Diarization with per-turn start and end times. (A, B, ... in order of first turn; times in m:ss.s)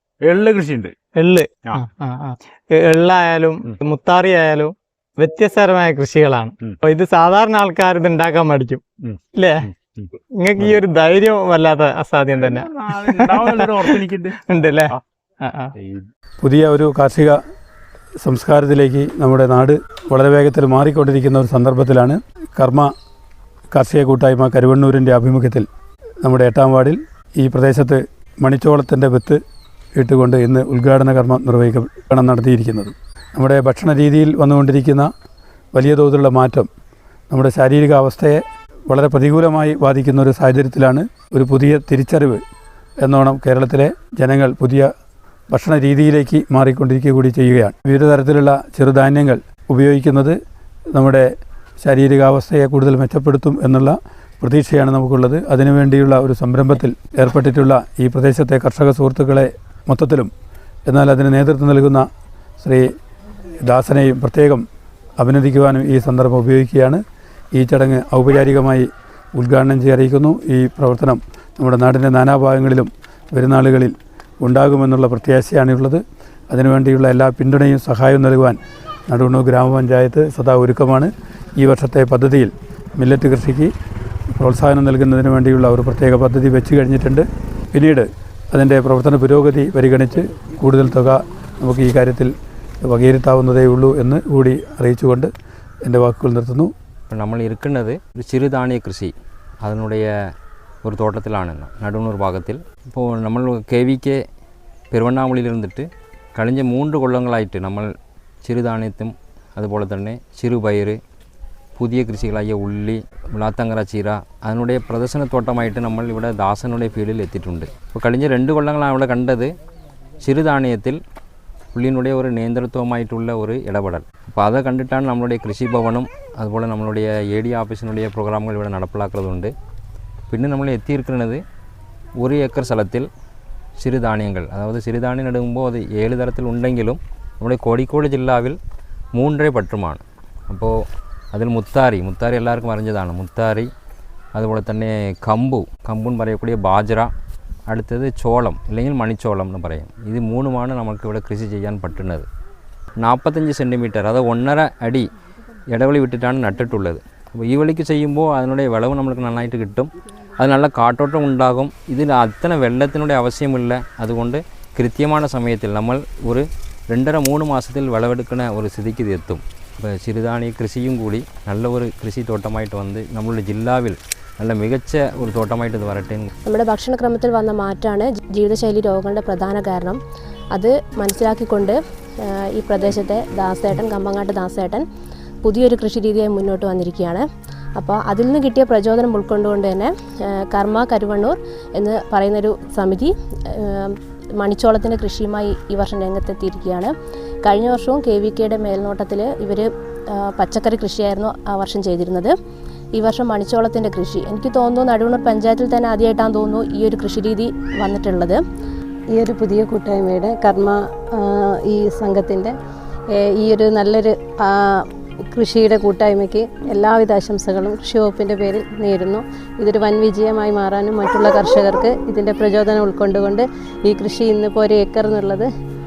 0:00.2-0:00.9 A
0:01.2-0:08.8 B
0:09.0-0:10.8 A
0:09.4-0:09.7 B
0:10.4-0:14.0 B
0:12.4-0:14.4 A
0:14.5-0:15.7 B
0:15.8-0:16.0 A
0:16.4-0:17.4 C
0:18.2-0:22.9 C
0:23.7-0:25.7 C
0:26.2-0:29.4 C
0:30.0-0:35.1 C
0:35.8-0:36.7 C
0:37.3-0:42.4 C
0:43.0-0:44.9 C
0:45.5-0:50.4 C
0:51.0-0:51.3 C
0:51.8-1:00.3 C
1:00.9-1:02.0 C
1:02.6-1:02.9 C
1:03.6-1:04.6 C
1:05.2-1:07.0 C
1:07.6-1:08.9 C
1:09.4-1:16.0 C
1:16.5-1:23.7 C
1:24.4-1:32.3 C
1:32.8-1:35.3 C
1:35.9-1:36.7 C
1:37.1-1:40.1 D
1:40.8-1:44.2 D
1:44.9-1:47.9 D
1:48.4-1:51.0 D
1:51.8-1:59.5 D
2:00.2-2:01.0 D
2:01.7-2:09.5 D
2:10.3-2:11.4 D
2:12.2-2:13.1 D
2:13.8-2:18.6 D
2:19.2-2:20.7 D
2:21.3-2:23.7 D
2:24.4-2:27.1 D
2:27.7-2:32.3 D
2:33.0-2:35.1 D
2:35.7-2:56.3 D
2:56.5-3:00.0 E
3:00.5-3:04.8 E
3:05.4-3:07.2 E
3:07.8-3:16.9 E
3:17.4-3:22.3 E
3:23.0-3:28.4 E
3:29.2-3:32.6 F
3:33.2-3:45.5 F